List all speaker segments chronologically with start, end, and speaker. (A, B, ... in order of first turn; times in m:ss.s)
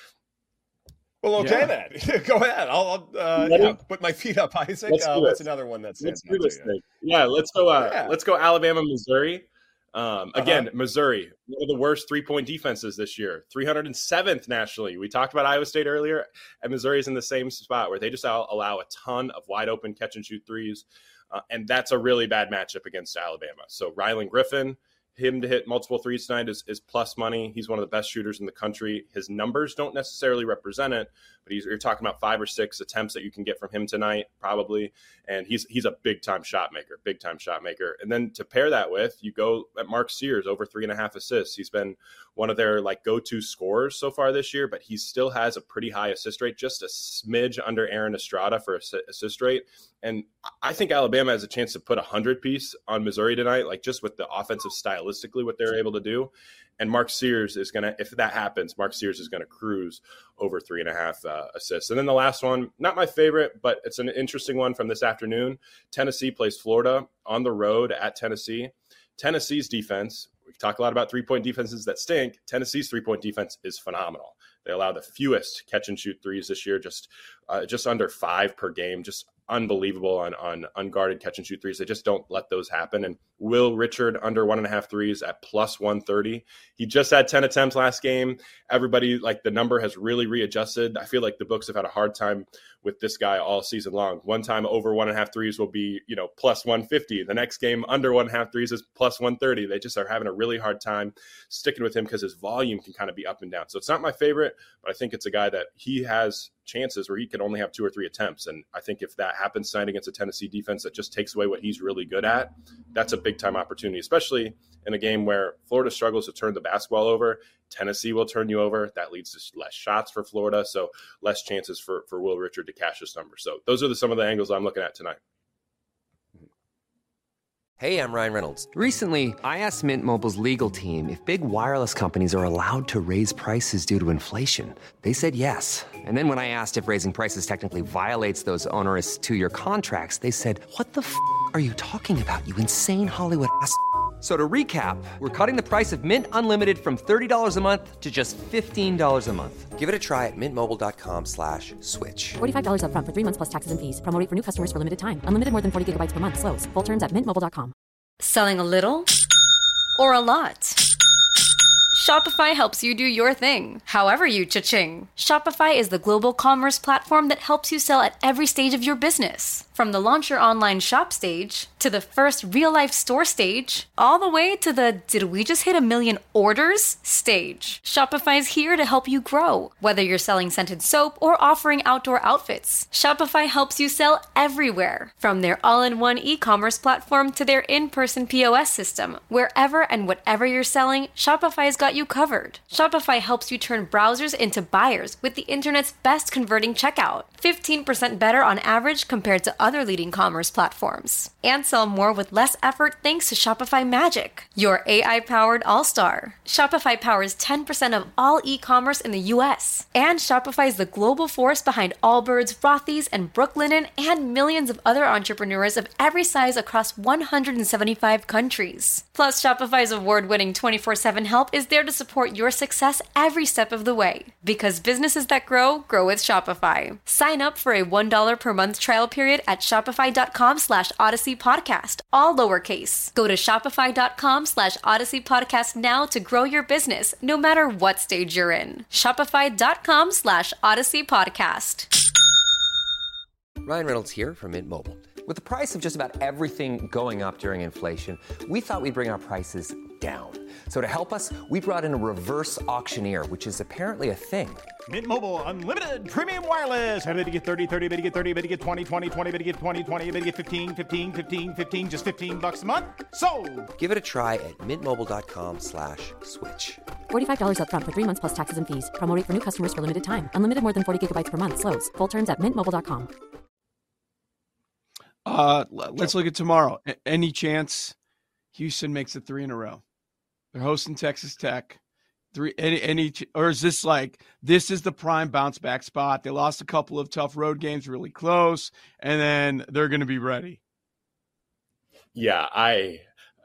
0:01.2-0:06.7 A
0:03.4-0:03.8 B
0:04.9-0:05.4 B
0:06.0-2:05.2 B
0:07.8-0:08.2 A
0:10.4-0:10.7 A
2:07.8-2:32.4 C
2:32.4-2:37.7 D
2:38.2-2:39.1 E
2:40.0-2:40.8 E
2:41.9-4:01.9 E
4:03.6-4:14.6 C
4:14.9-4:23.7 F
4:23.8-4:26.8 C
4:27.1-4:33.1 D
4:35.2-4:37.9 G
4:38.5-4:39.8 G
4:40.5-4:41.8 G
4:42.3-4:50.6 G
4:52.2-4:53.1 B